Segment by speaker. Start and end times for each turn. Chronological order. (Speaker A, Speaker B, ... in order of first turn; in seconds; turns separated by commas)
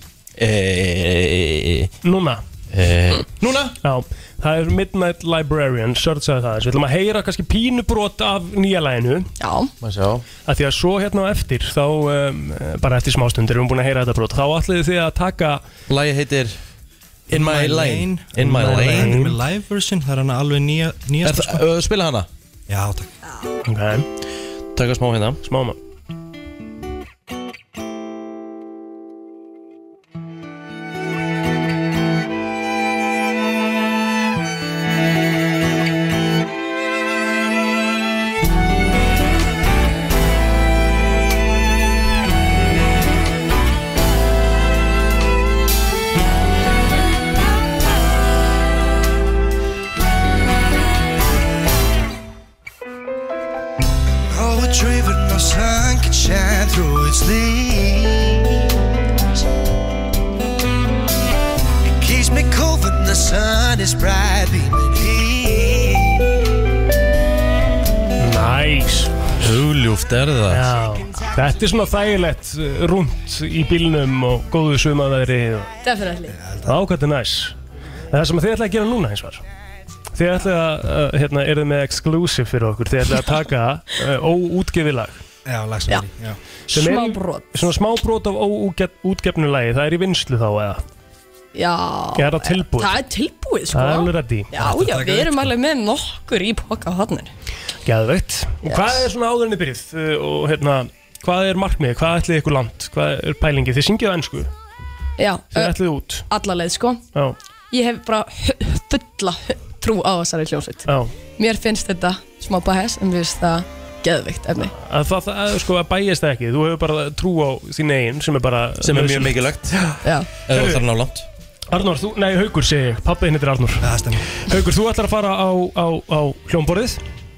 Speaker A: 0.4-1.9, Speaker B: 2.0-2.4, Speaker A: 2.7-3.7, Speaker B: 3.8-9.3, Speaker C: 9.4-9.7, Speaker A: 9.8-10.2, Speaker B: 10.5-15.6, Speaker A: 15.9-16.6, Speaker A: 17.3-19.1, Speaker D: 17.3-21.6, Speaker B: 18.5-19.4, Speaker A: 21.2-22.3, Speaker D: 22.7-23.1, Speaker B: 23.6-24.1, Speaker A: 24.8-25.4, Speaker B: 25.5-25.8, Speaker E: 54.3-58.5, Speaker E: 62.0-66.2, Speaker B: 68.2-69.3, Speaker A: 69.4-70.7, Speaker B: 70.5-75.7, Speaker C: 75.8-76.4, Speaker D: 76.3-76.8, Speaker B: 76.7-77.5, Speaker B: 78.1-79.4, Speaker B: 80.2-85.2, Speaker D: 85.5-86.4, Speaker C: 86.7-87.7, Speaker B: 86.7-90.8, Speaker C: 91.5-97.3, Speaker B: 92.2-93.0, Speaker B: 93.7-94.5, Speaker D: 94.5-95.5, Speaker B: 97.8-104.5, Speaker C: 98.7-99.0, Speaker C: 105.2-105.8, Speaker B: 105.5-106.2, Speaker C: 106.3-107.0, Speaker C: 107.7-114.7, Speaker B: 110.9-111.1, Speaker B: 114.8-120.9, Speaker A: 118.8-119.8, Speaker C: 120.0-120.3, Speaker A: 120.5-121.3, Speaker B: 121.7-127.0, Speaker D: 123.8-124.2